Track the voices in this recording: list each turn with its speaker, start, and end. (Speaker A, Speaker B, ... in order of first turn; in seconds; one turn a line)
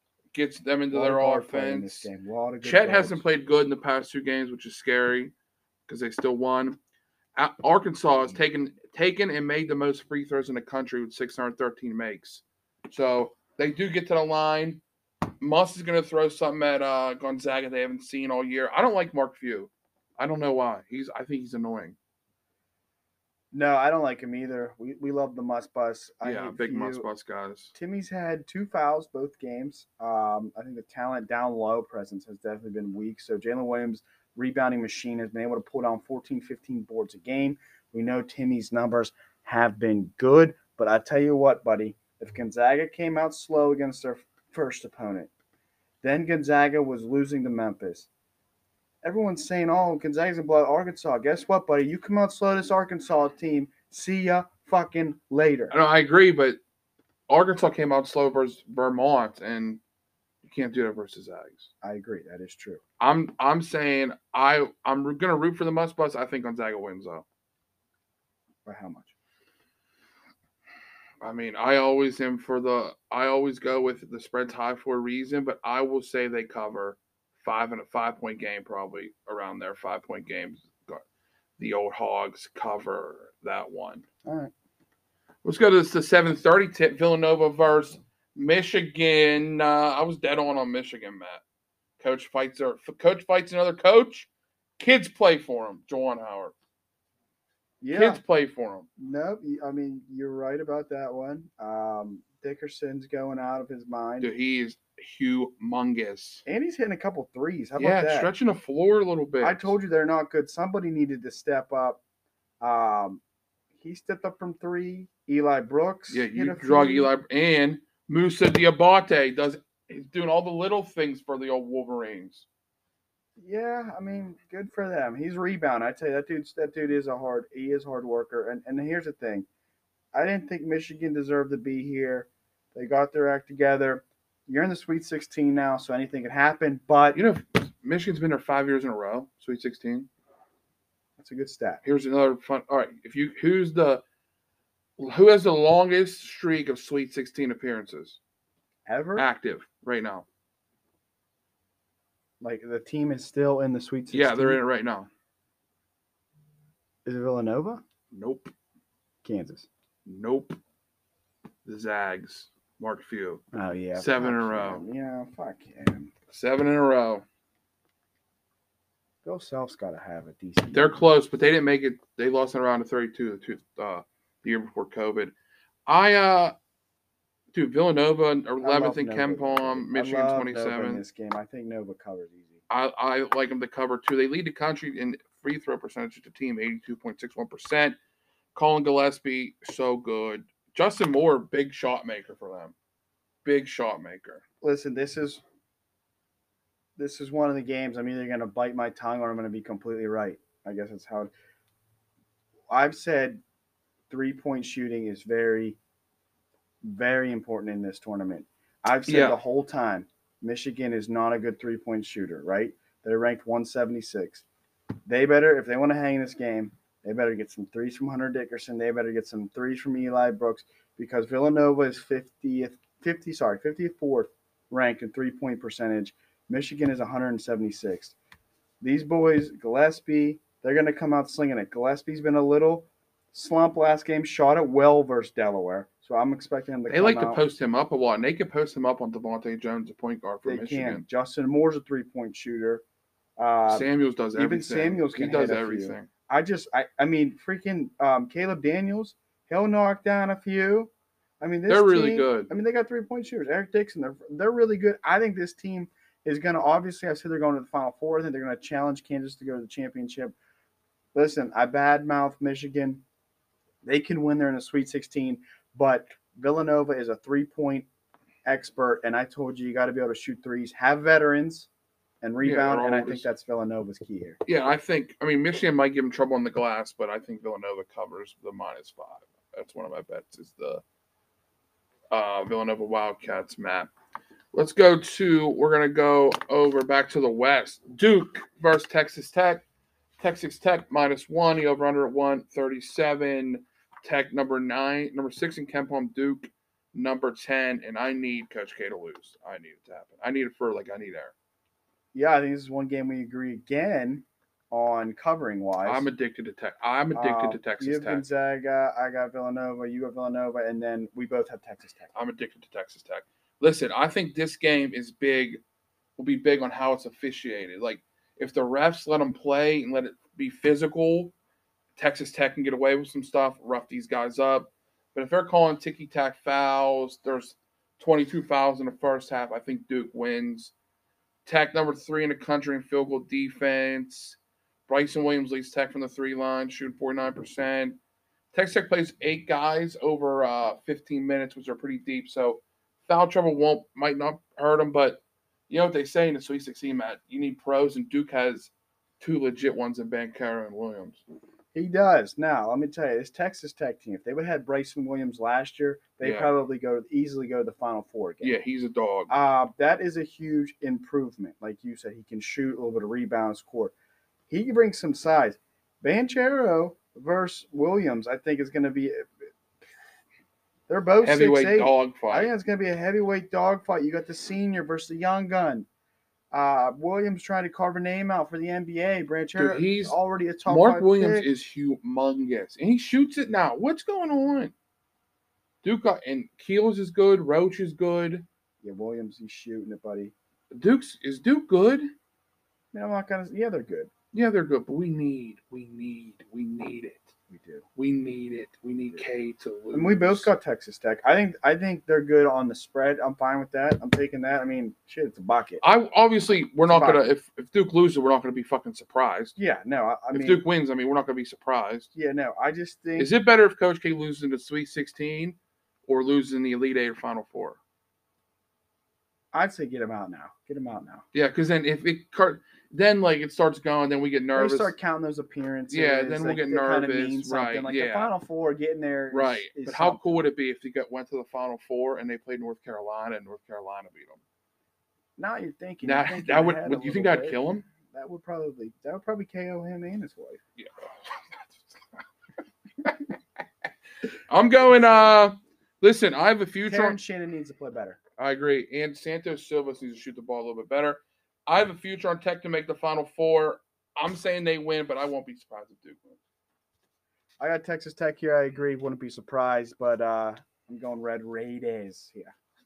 Speaker A: 0.3-2.1
Speaker B: 0.9-3.2
Speaker A: 2.6-5.3
Speaker A: 5.9-6.8
Speaker A: 7.3-14.8
Speaker A: 15.4-22.0
Speaker B: 23.5-27.1
Speaker A: 26.2-27.7
Speaker B: 27.8-45.3
Speaker B: 46.0-48.1
Speaker B: 49.0-55.7
Speaker A: 55.7-56.6
Speaker A: 57.3-59.8
Speaker A: 60.4-61.7
Speaker B: 61.8-62.8
Speaker A: 63.0-67.2
Speaker B: 68.6-69.1
Speaker A: 71.2-81.0
Speaker A: 81.6-84.0
Speaker B: 84.2-84.5
Speaker A: 85.4-91.4
Speaker A: 92.0-96.5
Speaker B: 97.8-98.2
Speaker A: 97.9-98.9
Speaker B: 99.0-104.3
Speaker A: 104.2-106.4
Speaker B: 106.5-108.3
Speaker A: 107.8-109.8
Speaker B: 109.4-112.0
Speaker B: 112.6-113.2
Speaker B: 113.8-117.1
Speaker A: 116.1-122.5
Speaker B: 123.4-129.5
Speaker B: 130.1-137.2
Speaker A: 137.1-140.1
Speaker B: 141.2-141.8
Speaker A: 141.8-144.0
Speaker A: 145.0-148.2
Speaker B: 148.9-149.3
Speaker A: 149.2-150.2
Speaker B: 152.4-154.6
Speaker A: 154.1-155.1
Speaker B: 157.1-157.8
Speaker A: 158.1-158.5
Speaker B: 159.2-159.7
Speaker A: 160.1-160.6
Speaker A: 161.6-163.4
Speaker B: 163.5-166.1
Speaker A: 163.9-164.8
Speaker A: 166.3-167.2
Speaker B: 169.2-171.0
Speaker A: 170.7-175.3
Speaker A: 175.9-176.6
Speaker A: 177.5-181.0
Speaker B: 178.6-182.6
Speaker A: 182.7-188.0
Speaker A: 188.6-192.7
Speaker A: 193.4-194.4
Speaker B: 194.6-195.4
Speaker B: 197.0-201.3
Speaker B: 202.7-203.4
Speaker B: 204.1-205.8
Speaker B: 206.8-214.4
Speaker A: 209.1-209.4
Speaker B: 215.1-228.1
Speaker B: 228.8-237.4
Speaker A: 236.9-241.1
Speaker B: 240.4-242.8
Speaker B: 243.4-260.3
Speaker A: 243.7-246.1
Speaker A: 251.7-252.5
Speaker B: 261.1-263.0
Speaker B: 263.8-267.9
Speaker B: 268.4-271.7
Speaker B: 272.2-274.4
Speaker A: 272.4-273.3
Speaker A: 274.4-280.8
Speaker A: 282.1-283.9
Speaker A: 284.5-289.6
Speaker A: 290.2-301.3
Speaker B: 302.1-306.1
Speaker A: 305.8-308.2
Speaker B: 307.1-312.1
Speaker A: 312.1-315.6
Speaker A: 316.2-321.3
Speaker A: 321.9-330.7
Speaker A: 331.4-338.0
Speaker A: 338.5-351.2
Speaker B: 351.7-358.5
Speaker A: 356.2-356.5
Speaker A: 358.4-359.3
Speaker B: 359.3-363.9
Speaker B: 364.5-369.3
Speaker B: 370.9-375.9
Speaker A: 371.2-372.5
Speaker B: 376.5-381.5
Speaker A: 379.6-384.7
Speaker A: 385.8-388.5
Speaker B: 388.8-390.3
Speaker A: 390.7-392.1
Speaker B: 392.9-394.1
Speaker A: 394.3-397.3
Speaker B: 397.5-397.9
Speaker A: 398.0-400.5
Speaker B: 399.9-405.8
Speaker A: 405.8-409.5
Speaker B: 406.9-407.2
Speaker B: 409.6-410.6
Speaker A: 410.3-412.1
Speaker B: 412.1-413.3
Speaker A: 413.2-417.8
Speaker B: 419.5-421.2
Speaker A: 421.3-424.9
Speaker B: 424.5-430.4
Speaker A: 425.9-428.3
Speaker A: 429.3-434.4
Speaker B: 435.4-440.6
Speaker A: 436.0-437.9
Speaker A: 440.8-442.2
Speaker A: 443.0-443.4
Speaker A: 444.5-447.2
Speaker B: 446.9-448.2
Speaker A: 448.4-456.4
Speaker B: 457.6-462.5